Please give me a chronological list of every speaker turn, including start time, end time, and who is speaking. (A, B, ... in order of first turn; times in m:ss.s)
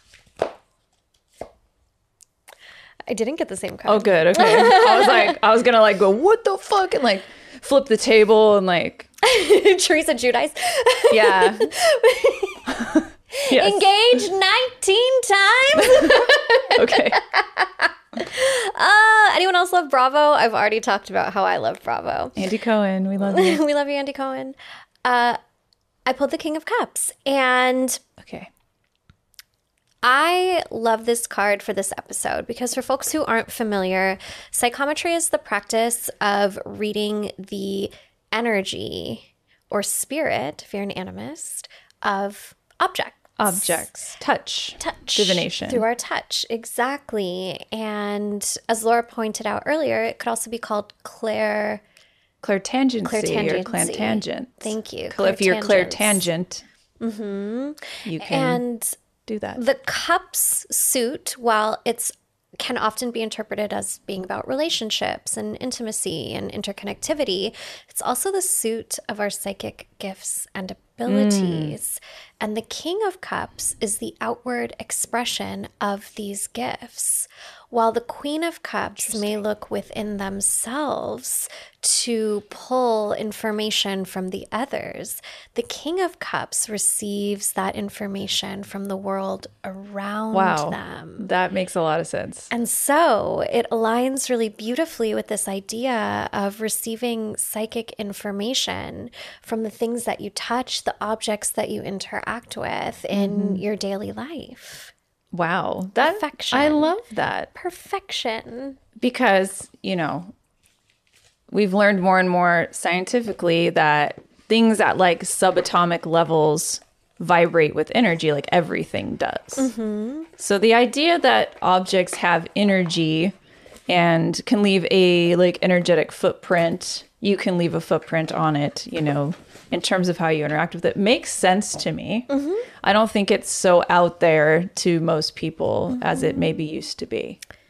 0:03.1-0:05.4 A
0:03.9-0:09.1 B
0:09.2-0:12.7 A
0:11.1-0:11.7 B
0:12.7-0:13.9 B
0:13.4-0:22.4 A
0:15.8-0:17.2 B
0:22.4-0:23.6 B
0:23.2-0:25.4 A
0:26.1-0:28.0 A
0:28.2-0:28.5 B
0:30.0-0:43.9 A
0:43.4-0:45.8 B
0:44.8-0:51.8 A
0:52.4-0:56.6 B
0:53.0-0:56.2 A
0:57.0-0:58.9 A
0:58.0-0:58.6 B
0:59.3-0:59.6 B
0:59.6-1:31.3 A
1:11.1-1:11.8 B
1:30.3-1:32.5 B
1:32.5-1:44.9 A
1:43.1-1:43.6 B
1:45.3-1:47.5 B
1:46.0-1:46.9 A
1:47.6-1:48.8 A
1:49.0-1:50.3 B
1:51.5-1:59.7 B
1:59.6-2:00.3 A
2:00.4-2:03.3 B
2:03.9-2:17.4 B
2:12.3-2:12.7 A
2:16.0-2:16.6 A